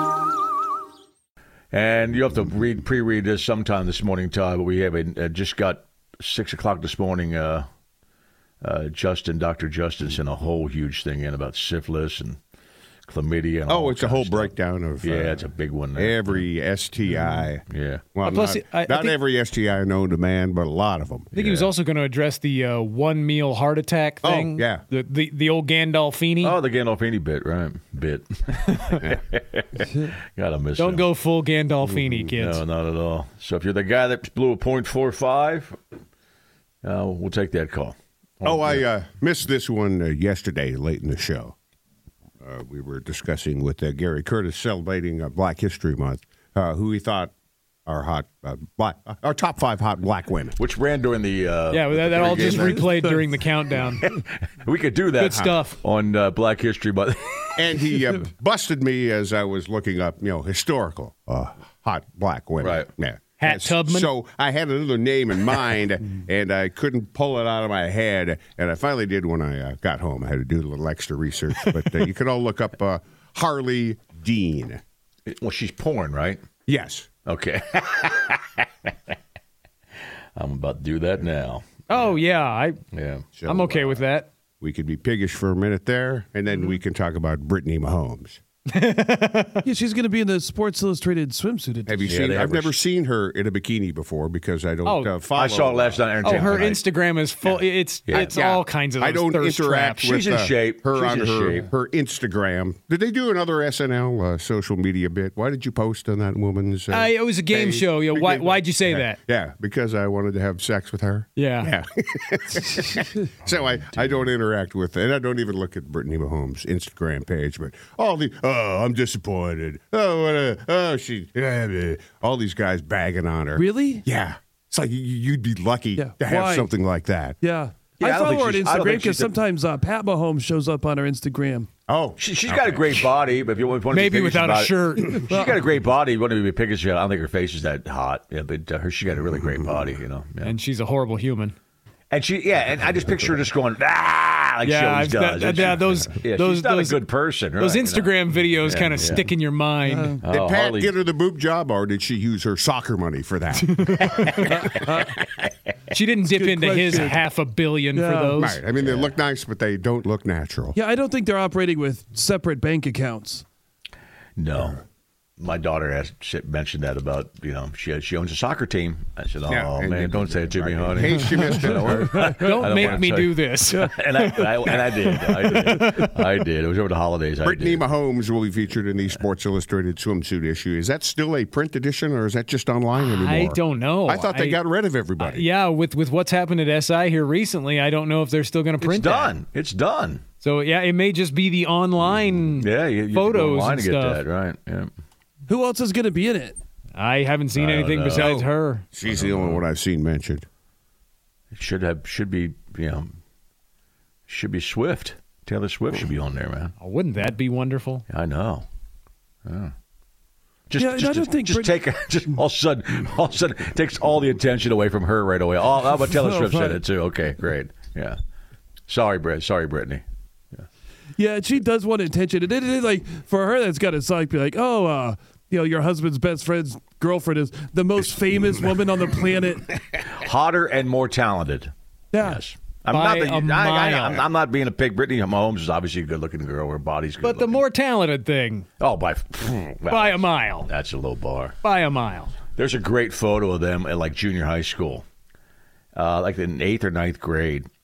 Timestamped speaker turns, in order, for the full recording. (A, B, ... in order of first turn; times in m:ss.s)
0:01.7-0:07.6 A
0:08.6-0:12.4 A
0:13.1-0:16.5 A
0:13.7-0:17.6 B
0:17.1-0:18.0 A
0:18.1-0:21.3 B
0:18.2-0:19.2 C
0:21.3-0:21.7 A
0:21.3-0:26.6 C
0:24.2-0:24.8 B
0:26.4-0:31.1 A
0:29.8-0:30.1 D
0:30.8-0:32.6 C
0:32.4-0:35.8 A
0:36.8-0:38.9 A
0:38.4-0:41.5 B
0:42.4-0:47.3 B
0:47.9-0:50.6 B
0:50.6-0:52.8 A
0:51.7-0:54.0 C
0:52.2-0:53.3 D
0:54.0-0:57.8 A
0:55.2-0:55.8 C
0:55.2-0:55.5 B
0:57.6-1:14.8 B
1:02.6-1:02.9 A
1:03.4-1:04.1 C
1:15.3-1:16.4 A
1:16.7-1:17.1 B
1:17.2-1:18.9 A
1:20.4-1:22.1 A
1:21.9-1:22.8 C
1:22.9-1:23.3 A
1:23.4-1:24.0 B
1:23.4-1:24.3 C
1:24.6-1:28.4 B
1:28.7-1:29.6 C
1:29.6-1:32.2 D
1:31.8-1:36.5 B
1:32.1-1:32.8 A
1:34.8-1:35.1 C
1:35.3-1:36.8 A
1:36.2-1:40.2 C
1:37.4-2:07.4 B
1:38.0-1:38.4 A
1:40.0-1:41.7 A
1:46.9-1:49.2 C
1:51.4-1:51.7 C
2:03.5-2:04.0 D
2:06.0-2:06.7 D
2:07.4-2:11.7 D
2:08.0-2:09.3 A
2:11.9-2:13.0 B
2:12.2-2:20.5 A
2:13.9-2:15.2 C
2:15.3-2:15.6 D
2:20.4-2:21.6 C
2:22.1-2:29.2 A
2:24.6-2:27.0 C
2:27.6-2:30.1 C
2:29.8-2:30.2 D
2:30.2-2:31.0 A
2:30.3-2:34.1 B
2:33.6-2:34.5 C
2:34.5-2:35.2 D
2:35.9-2:38.6 C
2:36.3-2:37.2 D
2:37.9-2:38.5 D
2:38.4-2:40.7 B
2:38.8-2:39.2 A
2:40.7-2:43.4 D
2:44.4-2:44.8 A
2:45.4-2:57.9 A
2:49.5-2:52.9 B
2:52.4-2:56.1 C
2:55.4-2:55.9 D
2:57.4-3:05.5 B
3:03.0-3:04.6 C
3:05.2-3:09.4 C
3:08.8-3:10.2 A
3:10.4-3:14.2 C
3:12.5-3:14.9 A
3:15.5-3:16.6 D
3:16.9-3:18.8 C
3:17.5-3:18.3 A
3:18.1-3:20.5 B
3:19.0-3:19.6 A
3:21.5-3:23.1 A
3:24.3-3:26.7 A
3:26.8-3:28.0 C
3:28.1-3:28.6 A
3:29.4-3:29.7 A
3:30.7-3:38.2 A
3:30.8-3:31.8 D
3:36.0-3:36.8 D
3:38.9-3:40.6 A
3:41.2-3:49.8 D
3:50.1-3:57.6 A
3:52.1-3:52.4 D
3:52.9-3:54.2 C
3:57.2-3:58.7 C
3:58.8-4:01.6 A
3:59.9-4:00.7 C
4:01.6-4:02.3 C
4:02.6-4:05.0 A
4:05.9-4:07.7 A